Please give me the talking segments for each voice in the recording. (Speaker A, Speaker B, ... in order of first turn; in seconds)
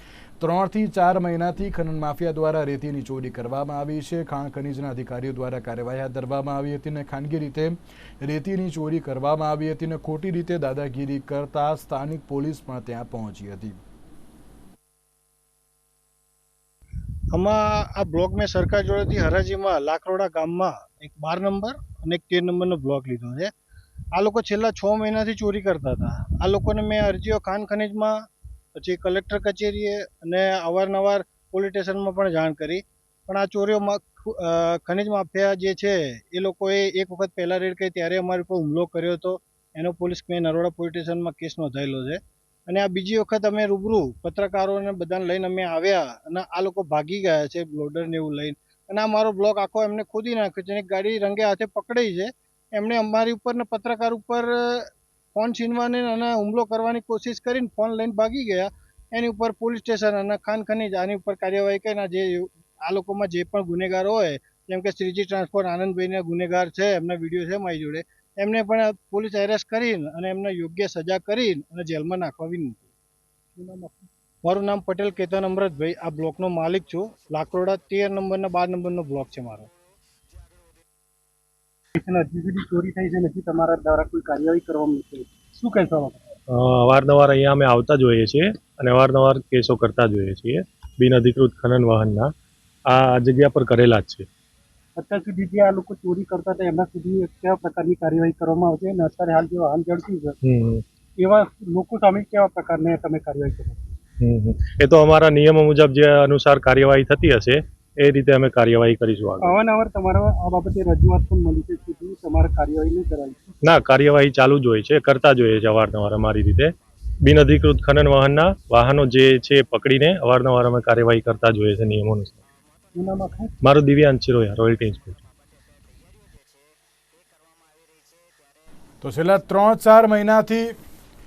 Speaker A: 0.4-13.8, 129.0-130.8
Speaker B: 17.3-23.5, 24.1-28.2, 28.8-72.8, 74.4-79.7
Speaker C: 73.5-74.1, 81.9-86.2, 95.0-100.4, 101.2-103.9, 109.4-113.6, 123.0-123.5
Speaker D: 86.5-92.3, 92.9-94.3, 100.4-100.8, 104.2-109.6, 113.6-122.4, 123.6-125.2